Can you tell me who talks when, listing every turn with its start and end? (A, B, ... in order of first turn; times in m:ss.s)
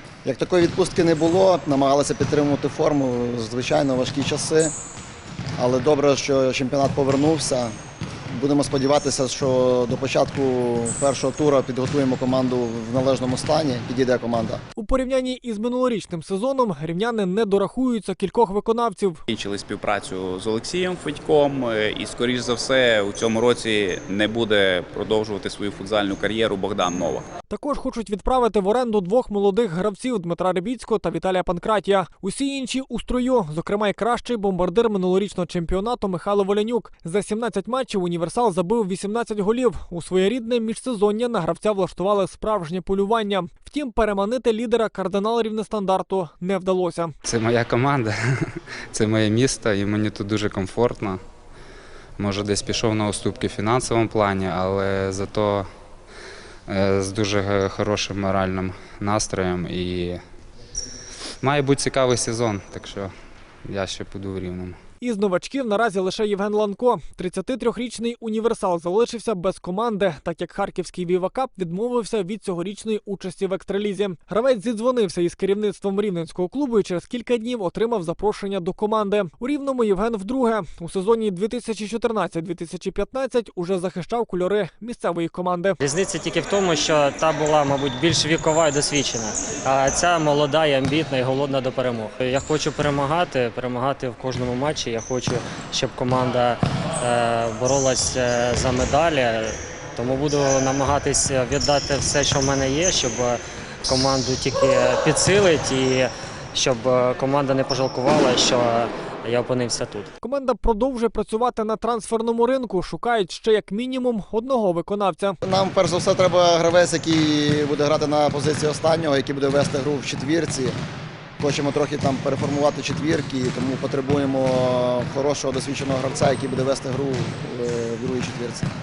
0:00.2-0:04.7 A
0:05.6-0:07.8 A
0:08.3-0:14.6 A
0:14.8-0:19.2 B
0:19.3-0:27.3 C
0:27.5-0:47.2 B
0:47.3-0:48.1 D
0:49.0-0:51.2 D
0:52.2-0:55.7 D
0:56.7-1:00.2 D
1:01.4-1:03.1 D
1:03.7-1:04.7 D
1:05.0-1:25.8 B
1:25.8-1:50.1 E
1:50.2-1:55.4 B
1:55.4-2:00.8 A
2:01.4-2:08.7 A